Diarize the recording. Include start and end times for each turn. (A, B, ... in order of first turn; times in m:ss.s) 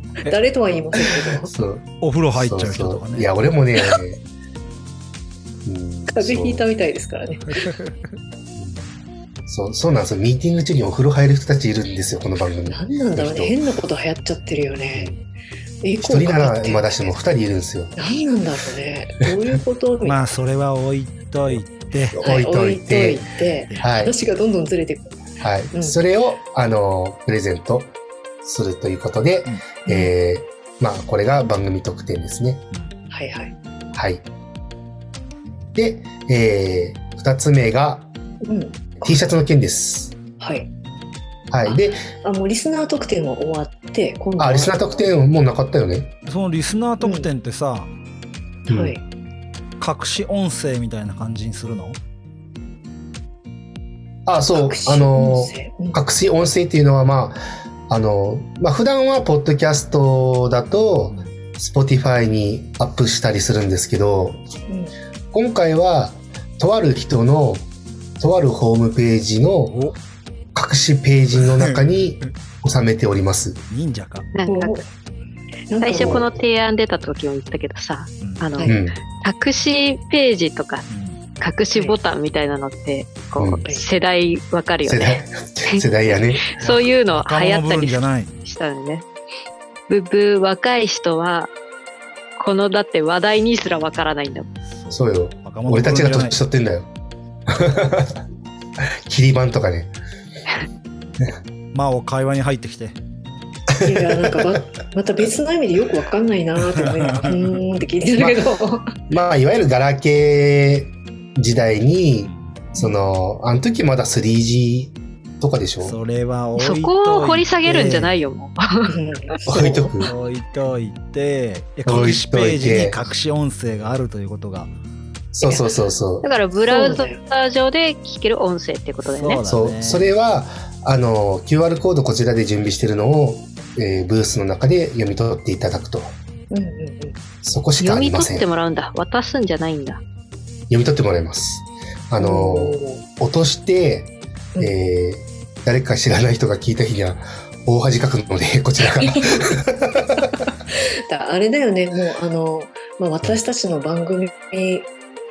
0:00.3-0:01.5 A
0:01.4-0:04.2 B
0:02.0-0:03.3 C
0:05.6-0:06.6 B
0:06.1-0:07.6 A
0:08.6-0:08.9 B
0:09.5-0:13.6 B
0:12.7-0:15.1 A
0:14.9-0:15.2 B
0:15.8-0:17.2 A
0:16.0-0:18.0 B
0:18.0-0:20.2 A
0:20.0-0:22.2 C
0:22.2-0:23.2 B
0:22.2-0:25.2 A
0:23.8-0:24.1 B
0:25.4-0:32.6 B
0:29.9-0:30.1 A
0:33.1-0:33.5 A
0:33.9-0:34.2 B
0:35.8-0:38.1 B
0:38.4-0:39.2 A
0:39.0-0:40.2 B
0:40.4-0:40.7 A
0:41.5-0:42.1 B
0:41.6-0:44.8 A
0:44.4-0:46.1 B
0:46.3-0:47.9 C
0:47.0-0:47.3 A
0:48.7-0:49.0 B
0:48.7-0:49.0 A
0:49.8-0:52.0 C
0:54.3-1:04.4 B
0:54.5-0:56.0 A
1:01.1-1:01.4 C
1:04.7-1:04.9 A
1:05.3-1:07.7 B
1:08.2-1:09.8 B
1:09.7-1:10.0 C
1:10.5-1:13.6 B
1:11.4-1:12.0 C
1:13.7-1:14.3 C
1:14.3-1:14.8 D
1:14.5-1:14.8 A
1:15.7-1:16.3 A
1:15.8-1:20.9 D
1:16.0-1:16.4 B
1:18.2-1:18.5 C
1:18.7-1:19.0 B
1:20.9-1:21.2 C
1:21.4-1:29.0 D
1:23.4-1:23.6 B
1:24.8-1:26.5 B
1:26.6-1:28.3 C
1:29.9-1:31.5 D
1:32.4-1:34.5 D
1:34.7-1:36.4 C
1:34.9-1:36.9 B
1:37.5-1:38.2 B
1:39.1-1:39.9 B
1:41.7-1:43.0 C
1:43.7-1:44.4 B
1:43.8-1:48.8 A
1:46.8-1:47.4 C
1:49.1-1:56.0 B
1:52.2-1:52.6 C
1:55.8-1:58.2 C
1:56.6-1:58.9 D
1:58.9-2:00.0 A
1:59.5-2:00.1 B
2:00.0-2:04.7 C
2:01.8-2:03.0 B
2:05.3-2:06.3 B
2:06.2-2:09.4 D
2:06.6-2:07.2 A
2:09.0-2:10.1 C
2:09.5-2:16.2 B
2:16.5-2:17.2 A
2:17.4-2:18.5 B
2:17.8-2:20.0 D
2:20.7-2:30.3 B
2:22.2-2:23.0 A
2:31.1-2:34.9 A